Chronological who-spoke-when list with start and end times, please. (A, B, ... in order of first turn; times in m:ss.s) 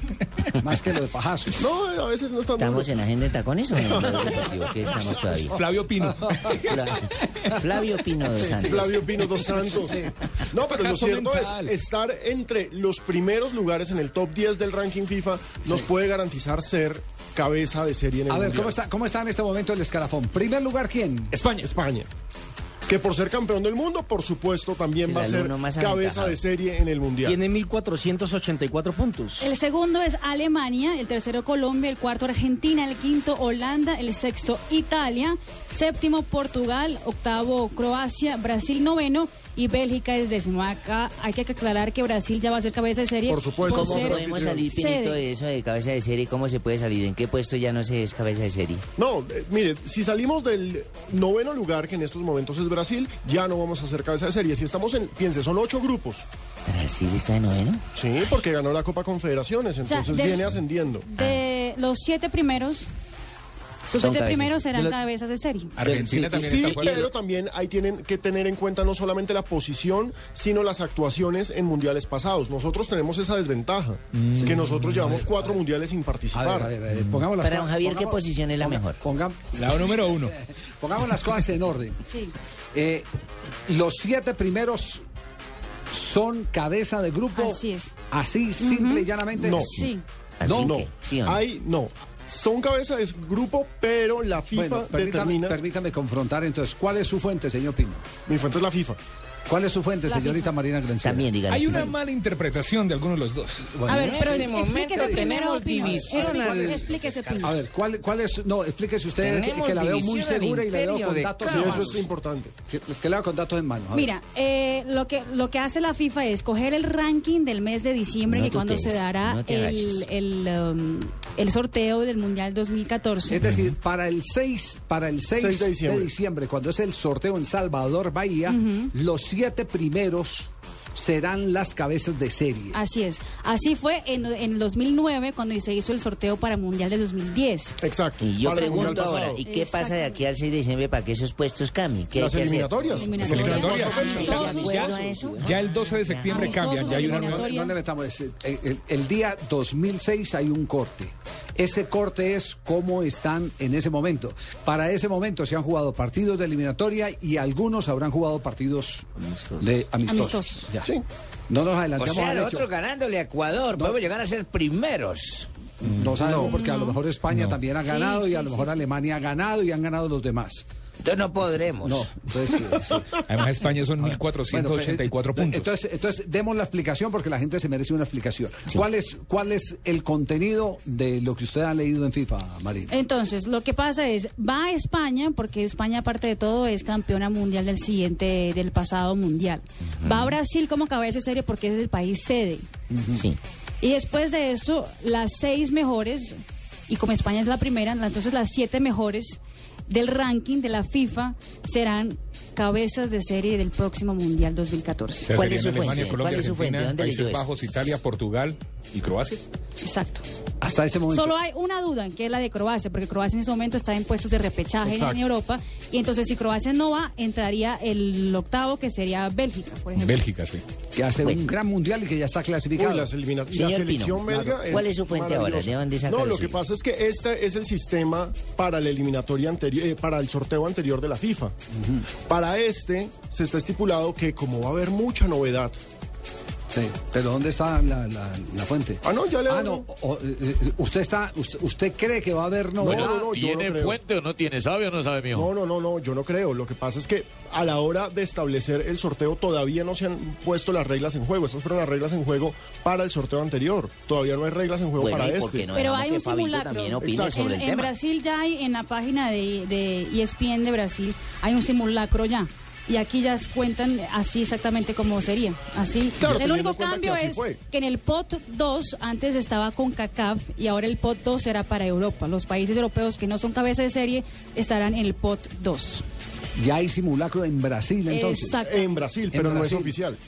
0:00.6-0:01.6 A
0:01.6-0:02.9 B
0:02.6-0:05.6 C
0:03.9-0:04.5 B
0:05.5-0:06.4 D
0:06.5-0:09.0 C
0:08.6-0:10.0 B
0:09.7-0:10.1 A
0:10.5-0:18.8 B
0:10.6-0:11.7 D
0:18.3-0:21.3 A
0:21.5-0:22.1 B
0:22.9-0:27.4 B
0:25.0-0:26.4 C
0:27.2-0:29.4 E
0:29.4-0:45.2 F
0:43.3-0:44.6 B
0:43.7-0:48.8 C
0:49.0-0:56.2 B
0:56.7-0:57.8 C
0:58.0-1:01.1 B
0:59.9-1:00.4 F
1:01.1-1:02.9 F
1:03.9-1:05.8 F
1:04.0-1:04.6 C
1:05.8-1:07.1 D
1:05.8-1:06.6 E
1:06.3-1:16.7 B
1:14.2-1:14.6 D
1:14.4-1:15.6 A
1:16.3-1:20.0 A
1:17.4-1:19.0 C
1:19.5-1:20.3 D
1:20.8-1:22.0 A
1:22.1-1:22.3 F
1:22.7-1:23.1 A
1:23.7-1:25.0 A
1:25.9-1:29.7 A
1:27.4-1:27.9 F
1:28.6-1:29.1 F
1:29.4-1:29.7 B
1:29.5-1:31.4 C
1:29.7-1:30.0 F
1:30.4-1:30.8 A
1:30.6-1:35.6 B
1:34.5-1:38.1 A
1:38.3-1:39.0 B
1:39.5-1:41.3 A
1:40.1-1:40.5 F
1:41.0-1:42.0 C
1:41.5-1:43.8 D
1:43.8-1:45.4 A
1:43.9-1:47.5 C
1:43.9-1:47.6 F
1:46.4-1:46.7 A
1:47.4-1:52.1 A
1:49.2-1:52.0 C
1:51.4-1:52.5 B
1:52.7-1:54.1 A
1:53.9-2:03.4 F
1:58.3-2:00.1 C
2:03.3-2:12.8 A
2:05.4-2:06.1 B
2:08.5-2:08.9 F
2:12.7-2:17.8 F
2:17.8-2:19.4 B
2:18.2-2:26.7 C
2:18.6-2:20.2 F
2:22.1-2:25.0 B
2:22.9-2:24.9 F
2:23.2-2:27.5 D
2:26.3-2:27.8 F
2:26.9-2:39.1 A
2:39.6-2:40.9 A
2:40.1-2:40.7 F
2:41.5-2:42.7 A
2:42.0-2:45.5 C
2:45.8-2:50.6 A
2:46.2-2:46.5 B
2:46.4-2:47.0 F
2:47.8-2:48.8 F
2:51.0-2:52.1 C
2:51.8-2:53.2 A
2:53.3-2:55.7 D
2:54.0-3:03.0 A
3:02.9-3:12.7 F
3:09.8-3:10.4 C
3:12.9-3:13.3 A
3:13.1-3:13.4 C
3:13.8-3:25.3 F
3:25.2-3:29.4 D
3:25.3-3:27.5 C
3:29.8-3:30.2 F
3:30.6-3:31.4 A
3:31.1-3:40.2 F
3:34.8-3:35.2 B
3:40.0-3:40.6 D
3:41.0-3:43.1 A
3:42.8-3:51.5 B
3:43.5-3:46.6 C
3:51.7-3:52.1 A
3:52.3-3:55.8 B
3:56.7-4:03.3 A
3:59.0-3:59.8 B
4:02.8-4:04.0 B
4:02.9-4:05.5 G
4:05.3-4:15.7 B
4:15.0-4:17.9 C
4:15.7-4:36.0 F
4:26.2-4:27.6 B
4:36.6-4:38.7 A
4:38.1-4:39.0 F
4:38.6-4:40.2 B
4:39.3-4:39.9 A